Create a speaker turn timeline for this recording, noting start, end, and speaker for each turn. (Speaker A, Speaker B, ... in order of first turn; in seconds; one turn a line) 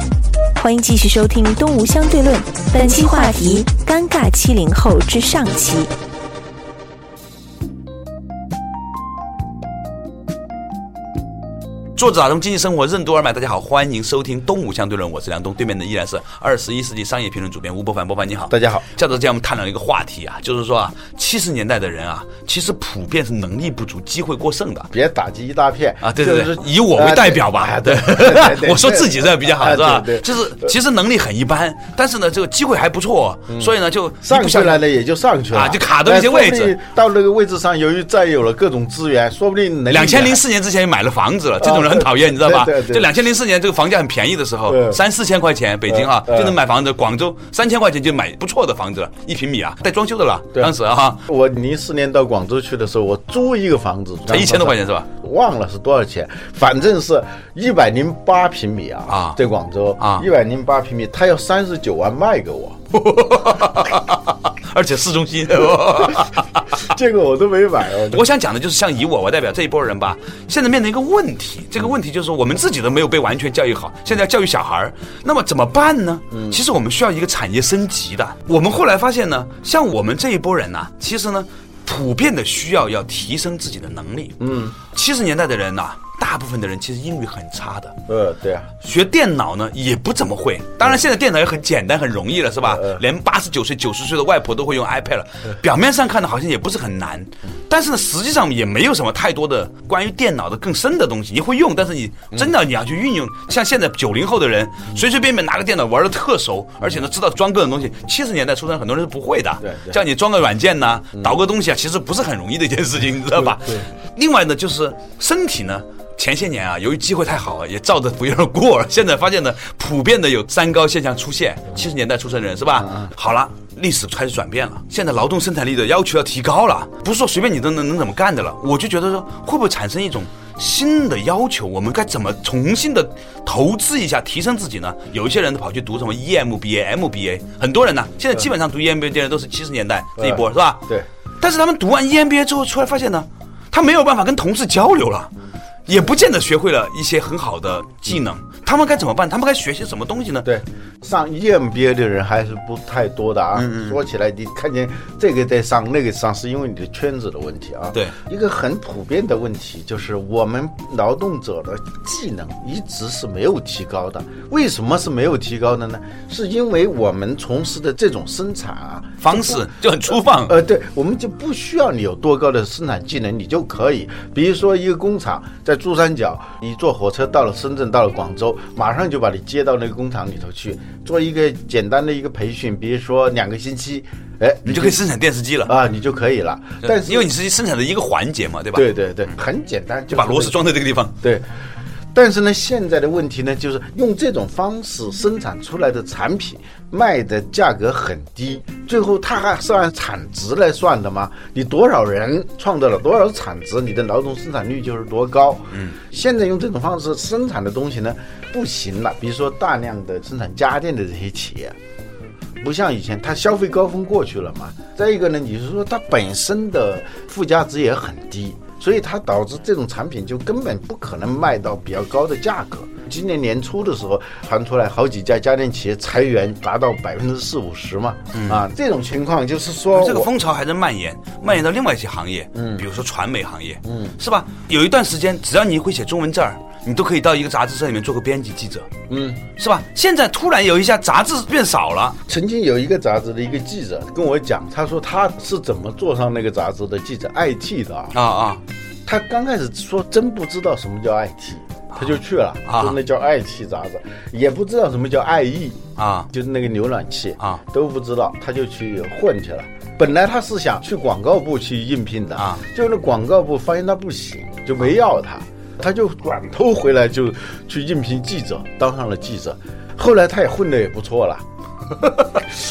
Speaker A: 0.6-5.9
Speaker B: 12.0-24.9
Speaker C: 18.5-18.9
Speaker C: 24.9-30.7
Speaker B: 26.0-34.8
Speaker C: 33.5-40.4
Speaker B: 35.5-36.8
Speaker B: 39.9-51.2
Speaker C: 41.6-43.1
Speaker C: 44.7-45.0
Speaker C: 45.9-46.6
Speaker C: 51.3-62.8
Speaker B: 54.3-55.1
Speaker B: 59.1-59.4
Speaker B: 60.0-60.3
Speaker B: 62.9-66.8
Speaker C: 66.1-68.2
Speaker B: 68.1-84.4
Speaker C: 76.3-76.6
Speaker C: 84.4-84.8
Speaker B: 84.9-88.0
Speaker C: 88.1-88.7
Speaker B: 88.8-140.9
Speaker C: 92.6-93.0
Speaker C: 109.6-110.0
Speaker C: 122.8-123.1
Speaker C: 140.2-141.1
Speaker B: 141.4-145.3
Speaker B: 145.9-150.5
Speaker C: 150.4-169.7
Speaker B: 153.6-154.0
Speaker B: 169.2-170.6
Speaker C: 170.4-185.0
Speaker B: 184.7-185.8
Speaker C: 185.7-187.3
Speaker B: 186.8-188.9
Speaker C: 188.7-190.6
Speaker B: 190.1-191.2
Speaker C: 192.1-211.8
Speaker C: 212.6-230.3
Speaker B: 228.3-228.6
Speaker B: 229.9-238.9
Speaker C: 232.6-232.8
Speaker C: 233.8-234.2
Speaker C: 239.1-239.4
Speaker B: 239.5-242.2
Speaker C: 242.3-248.2
Speaker B: 248.1-248.6
Speaker C: 249.1-271.4
Speaker B: 252.7-253.0
Speaker B: 256.0-256.3
Speaker B: 262.4-262.6